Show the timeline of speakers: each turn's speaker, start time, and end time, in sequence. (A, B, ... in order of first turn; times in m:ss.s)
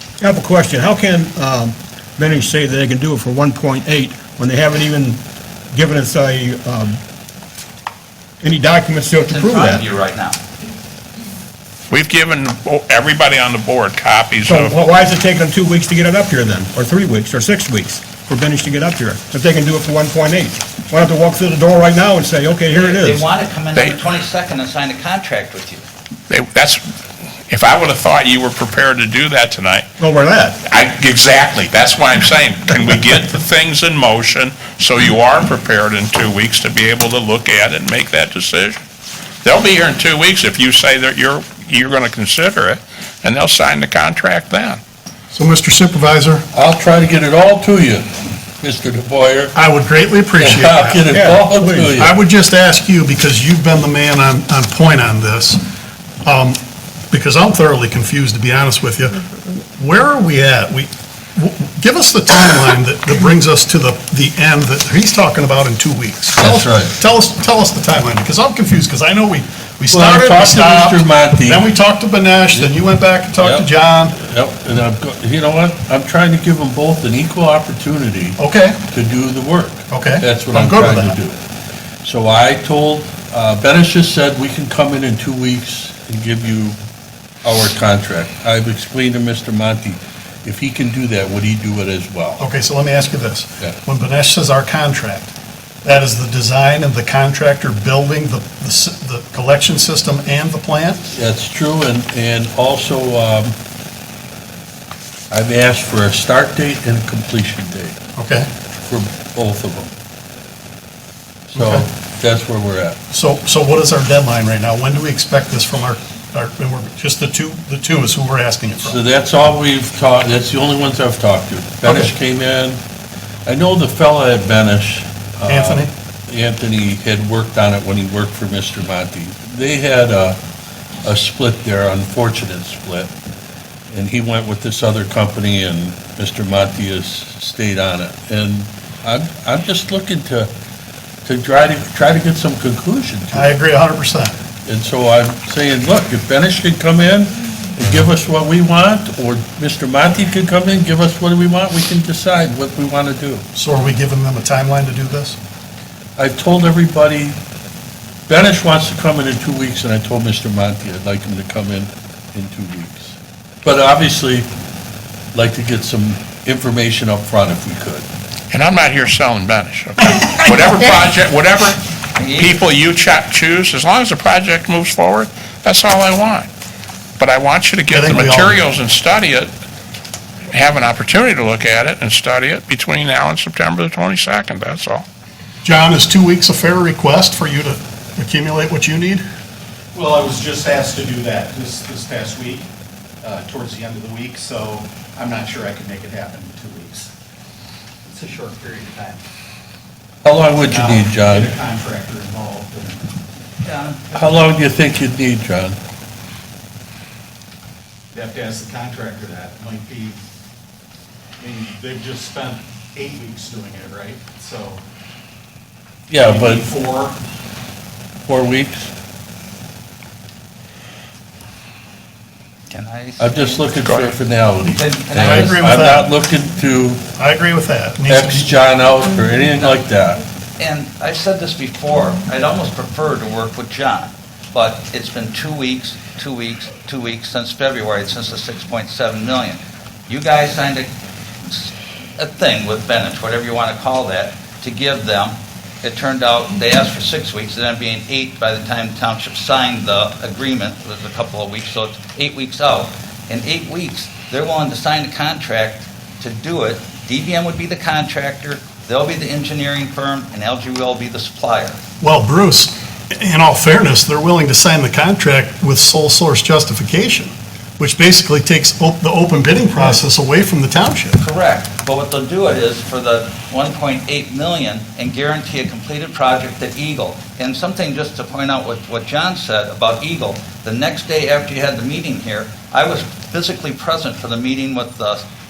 0:00.2-0:05.2 A
0:05.7-0:07.0 A
0:08.4-0:09.8 A
0:09.2-0:10.4 B
0:11.9-0:14.8 C
0:14.4-0:23.2 A
0:22.7-0:25.9 B
0:26.3-0:26.8 C
0:27.5-0:29.9 C
0:30.0-0:30.6 A
0:30.6-0:38.8 C
0:39.4-0:44.8 C
0:45.3-0:46.4 D
0:46.5-0:48.1 E
0:48.6-0:49.6 E
0:49.5-0:51.1 D
0:50.4-0:52.2 E
0:51.1-0:51.9 A
0:52.0-0:55.6 D
0:56.2-0:56.6 D
0:57.1-1:14.2 D
1:06.4-1:06.9 E
1:09.9-1:11.6 E
1:13.4-1:13.7 E
1:14.2-1:18.4 E
1:18.4-1:18.8 D
1:18.9-1:21.4 E
1:19.9-1:21.2 D
1:22.0-1:26.8 E
1:27.4-1:32.4 E
1:32.4-1:35.3 D
1:35.8-1:41.0 D
1:41.1-1:43.5 E
1:45.3-1:48.0 E
1:48.2-1:48.5 D
1:48.8-1:49.9 E
1:51.5-1:53.0 E
1:51.5-1:51.9 D
1:53.1-1:59.0 D
1:58.8-2:02.8 E
2:01.8-2:02.1 D
2:03.4-2:10.4 E
2:05.4-2:05.9 D
2:11.0-2:13.1 E
2:13.9-2:20.5 E
2:21.2-2:23.6 E
2:23.3-2:24.4 D
2:24.6-2:33.4 E
2:33.5-2:35.4 D
2:36.2-2:37.4 E
2:38.3-2:44.5 E
2:45.3-2:48.1 E
2:48.5-2:51.8 C
2:52.2-2:52.6 B
2:52.4-2:56.5 C
2:57.2-2:59.5 C
2:57.9-2:58.6 D
3:00.5-3:05.0 C
3:05.6-3:09.2 D
3:09.9-3:12.7 F
3:13.2-3:17.1 F
3:18.0-3:19.2 F
3:20.2-3:21.5 E
3:20.6-3:23.1 F
3:23.6-3:24.3 B
3:24.1-3:25.8 E
3:28.1-3:30.2 F
3:31.4-3:34.8 F
3:36.1-3:36.7 E
3:36.1-3:37.2 F
3:38.2-3:38.9 E
3:42.7-3:44.0 B
3:43.2-3:47.0 E
3:44.6-3:45.8 B
3:45.2-3:46.1 D
3:47.2-3:48.5 D
3:48.1-3:50.2 E
3:50.6-4:00.9 B
4:01.4-4:21.8 B
4:22.0-4:31.2 D
4:31.2-4:45.2 B